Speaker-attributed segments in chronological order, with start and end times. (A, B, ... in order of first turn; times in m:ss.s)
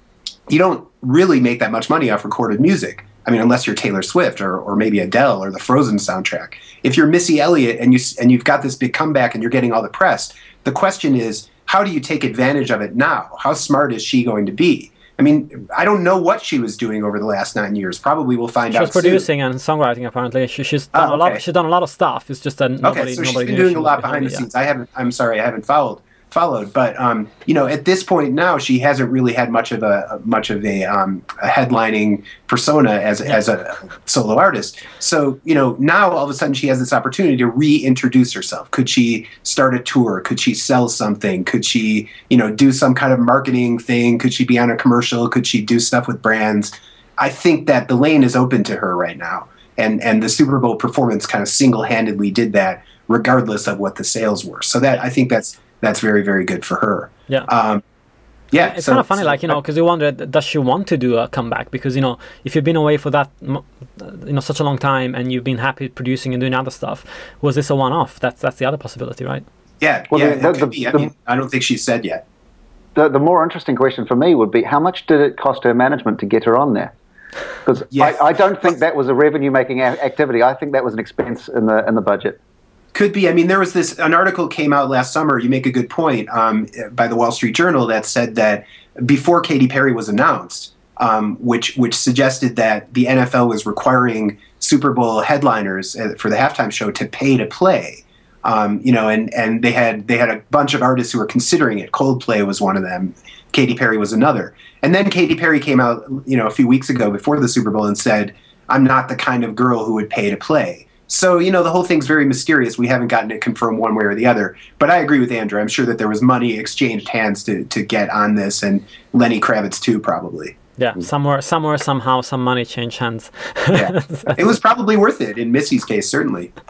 0:00.5-0:19.2 A
0:18.7-0:24.4 B
0:20.9-0:21.4 A
0:22.8-0:57.8 A
0:58.5-0:59.6 A
0:58.6-1:09.4 B
1:09.8-1:12.2 A
1:10.1-1:11.1 C
1:12.9-1:16.9 C
1:17.6-1:22.4 C
1:17.9-1:18.2 A
1:22.9-2:00.6 A
2:00.8-2:04.5 B
2:03.7-2:06.5 A